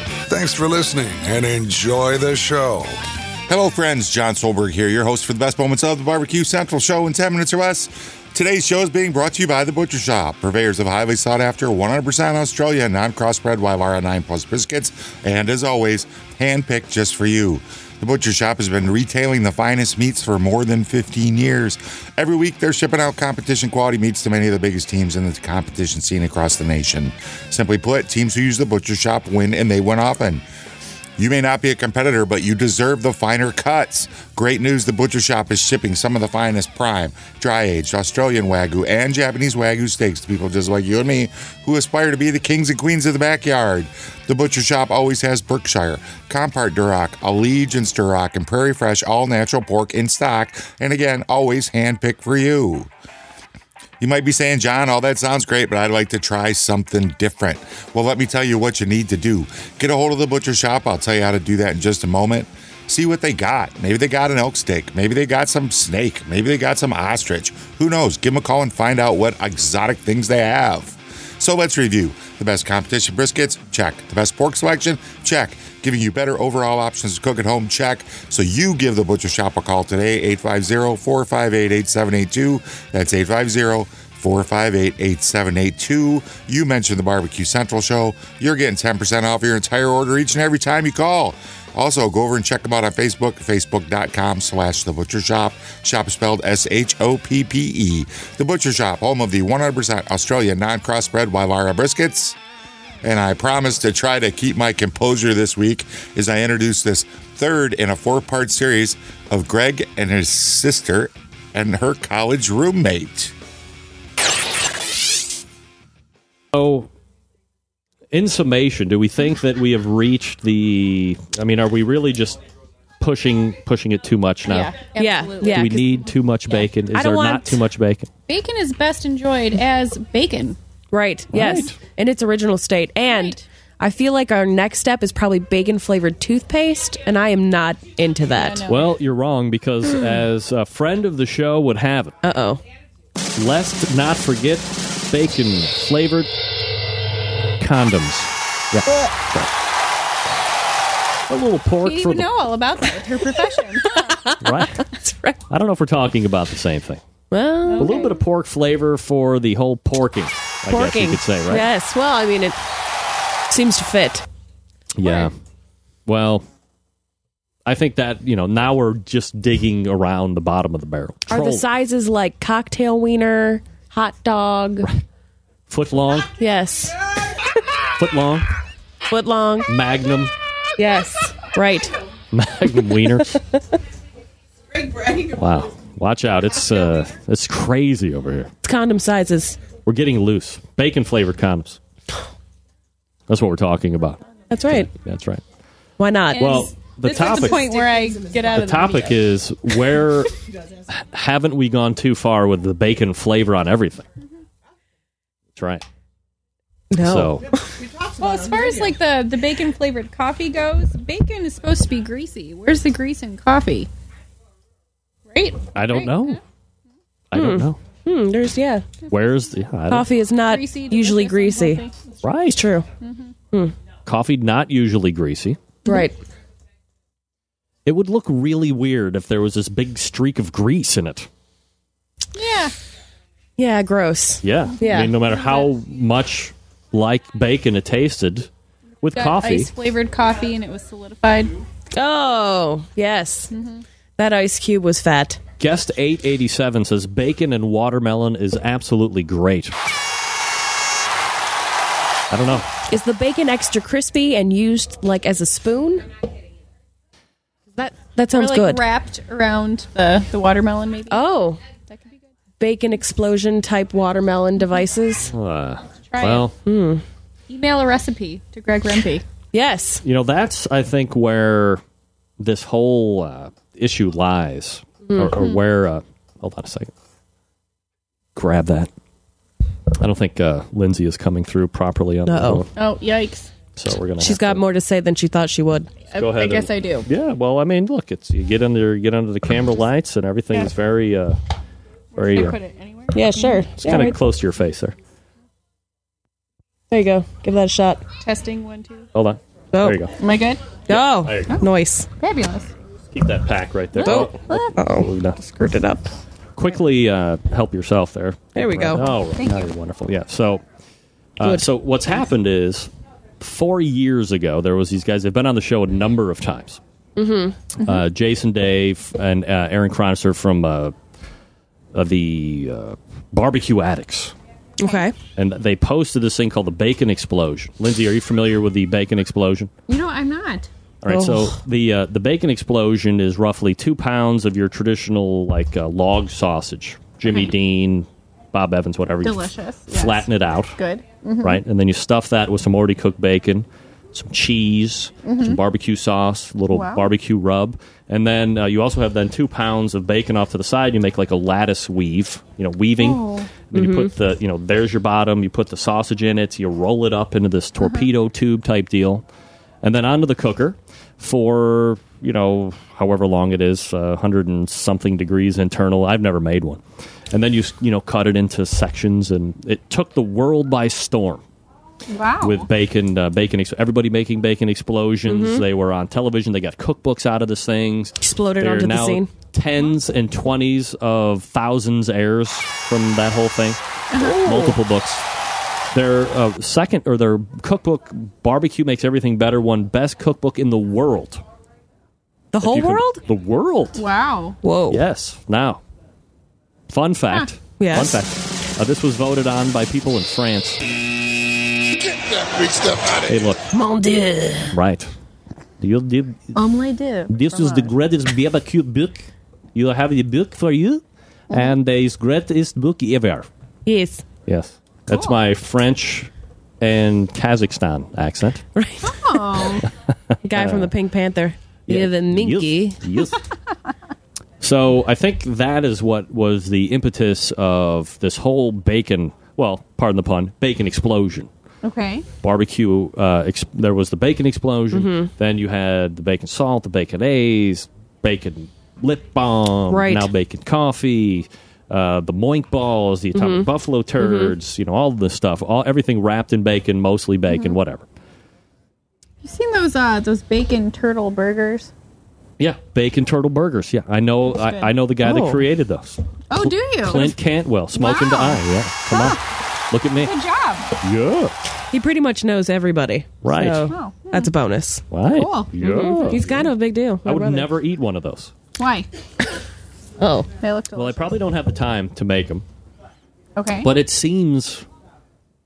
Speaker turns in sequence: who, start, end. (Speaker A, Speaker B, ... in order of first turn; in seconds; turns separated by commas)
Speaker A: 0.3-3.0, Speaker B: 3.5-30.4, Speaker B: 31.2-52.9, Speaker B: 54.0-102.4, Speaker B: 103.0-113.3, Speaker C: 116.5-116.9, Speaker C: 118.1-122.4, Speaker C: 123.0-124.7, Speaker D: 124.4-126.1, Speaker E: 124.9-125.9, Speaker C: 125.4-128.1, Speaker E: 126.9-127.6, Speaker D: 128.3-130.6, Speaker E: 130.9-138.7, Speaker C: 131.3-131.8, Speaker D: 133.0-133.4, Speaker D: 138.3-138.9, Speaker C: 138.7-142.2, Speaker E: 142.2-142.6, Speaker C: 143.3-146.3, Speaker C: 147.6-149.5, Speaker C: 151.3-152.3, Speaker D: 151.8-154.1, Speaker E: 153.9-155.4, Speaker C: 154.4-154.8, Speaker C: 155.5-157.0, Speaker E: 157.3-157.9, Speaker D: 157.6-158.2, Speaker C: 157.8-161.7, Speaker E: 160.7-162.6, Speaker E: 163.5-164.2, Speaker C: 164.9-165.3, Speaker D: 165.0-165.3, Speaker C: 166.1-166.4, Speaker C: 167.6-171.7, Speaker E: 171.3-174.9, Speaker C: 175.7-176.3, Speaker E: 176.3-177.0, Speaker C: 177.9-178.5, Speaker E: 179.1-179.7, Speaker C: 179.7-180.3, Speaker E: 180.8-181.9, Speaker C: 182.3-183.4, Speaker C: 185.2-188.5, Speaker E: 188.6-189.6, Speaker C: 189.7-191.8, Speaker C: 193.3-195.4, Speaker E: 194.5-194.9, Speaker E: 196.0-196.6, Speaker D: 196.3-199.2, Speaker C: 196.4-197.7, Speaker C: 198.5-200.4, Speaker C: 200.9-204.1, Speaker C: 205.5-205.8, Speaker E: 206.9-207.3, Speaker C: 207.0-207.4, Speaker D: 208.0-213.9, Speaker D: 215.3-216.4, Speaker C: 215.7-216.4, Speaker C: 217.3-217.8, Speaker E: 217.3-218.9, Speaker C: 219.1-220.1, Speaker E: 219.9-221.8, Speaker D: 220.5-222.1, Speaker C: 222.2-222.6, Speaker E: 222.5-222.9, Speaker D: 223.0-223.4, Speaker C: 224.0-225.8, Speaker E: 225.8-226.2, Speaker C: 227.8-231.3, Speaker D: 232.3-232.7, Speaker E: 233.6-235.2, Speaker C: 234.4-238.5, Speaker D: 235.2-235.7, Speaker C: 239.0-239.7, Speaker D: 239.1-241.6, Speaker E: 241.9-243.5, Speaker D: 243.5-243.8, Speaker E: 244.2-245.4, Speaker C: 245.6-249.7, Speaker C: 252.3-252.8, Speaker E: 252.8-256.1, Speaker E: 257.7-258.8, Speaker D: 258.3-261.2, Speaker E: 261.1-261.6, Speaker D: 261.8-262.3, Speaker E: 262.6-265.3, Speaker C: 265.3-266.5, Speaker D: 266.1-266.5, Speaker E: 266.6-267.0, Speaker D: 267.5-269.2, Speaker E: 269.5-270.0, Speaker C: 270.0-271.8, Speaker C: 272.4-276.9, Speaker D: 275.3-275.6, Speaker C: 278.3-278.9, Speaker C: 280.0-282.7, Speaker E: 282.2-282.6, Speaker D: 282.8-283.5, Speaker C: 283.8-284.6, Speaker E: 284.2-286.1, Speaker D: 286.1-287.1, Speaker C: 286.1-291.4, Speaker D: 292.1-293.7, Speaker C: 292.1-292.6, Speaker E: 293.1-294.2, Speaker C: 293.8-294.9, Speaker E: 296.9-298.0, Speaker D: 298.2-299.1, Speaker C: 299.1-300.1, Speaker E: 299.7-300.0, Speaker D: 300.2-300.8, Speaker E: 300.9-302.1, Speaker C: 300.9-301.6, Speaker D: 301.4-302.7, Speaker C: 303.1-305.4, Speaker E: 304.0-306.1, Speaker D: 304.0-304.8, Speaker C: 306.6-310.6, Speaker E: 308.5-309.2, Speaker D: 309.3-309.7, Speaker C: 311.4-316.8, Speaker E: 317.2-317.7, Speaker C: 317.8-320.9, Speaker C: 321.9-324.3, Speaker E: 324.8-325.1, Speaker C: 325.3-329.7, Speaker D: 329.9-330.7, Speaker C: 331.0-340.8, Speaker E: 331.1-331.6, Speaker D: 339.2-341.6, Speaker C: 341.4-359.2, Speaker D: 345.2-345.6, Speaker D: 346.7-347.1, Speaker D: 353.0-353.6, Speaker E: 353.7-354.1, Speaker C: 359.8-371.4, Speaker D: 372.1-372.7, Speaker C: 372.4-383.8, Speaker E: 375.3-375.6, Speaker E: 378.2-379.3, Speaker D: 384.1-384.4, Speaker E: 384.2-384.8, Speaker C: 384.4-385.2, Speaker C: 385.9-391.4, Speaker E: 392.5-393.2, Speaker C: 392.6-394.0, Speaker D: 393.9-394.6, Speaker E: 394.6-395.0, Speaker C: 394.9-395.8, Speaker C: 396.9-400.8, Speaker E: 397.8-398.2, Speaker C: 403.2-403.6, Speaker E: 403.7-404.8, Speaker C: 404.7-405.1, Speaker C: 405.8-406.6, Speaker D: 406.5-407.9, Speaker C: 407.3-413.5, Speaker E: 413.8-414.2, Speaker C: 414.4-418.6, Speaker D: 415.1-415.3, Speaker E: 418.7-419.4, Speaker D: 419.0-419.9, Speaker E: 420.4-423.0, Speaker C: 420.5-420.9, Speaker C: 421.9-423.5, Speaker C: 424.6-431.5, Speaker D: 431.8-432.3, Speaker C: 432.4-448.0, Speaker E: 434.9-435.3, Speaker E: 439.9-440.3, Speaker E: 443.3-444.5, Speaker D: 447.5-447.8, Speaker D: 449.4-451.9, Speaker C: 452.6-459.4, Speaker D: 454.5-454.9, Speaker E: 455.2-455.6, Speaker D: 456.5-457.4, Speaker D: 457.9-459.4, Speaker C: 459.9-460.3, Speaker D: 460.1-460.9, Speaker C: 461.0-461.5, Speaker E: 461.9-465.1, Speaker C: 463.4-463.9, Speaker D: 463.8-464.5, Speaker C: 465.1-466.7, Speaker D: 465.3-466.3, Speaker E: 465.8-467.7, Speaker C: 467.2-468.5, Speaker D: 468.8-469.1, Speaker E: 470.2-470.5, Speaker D: 470.6-471.4, Speaker C: 470.9-472.6, Speaker D: 473.6-473.9, Speaker C: 473.8-474.9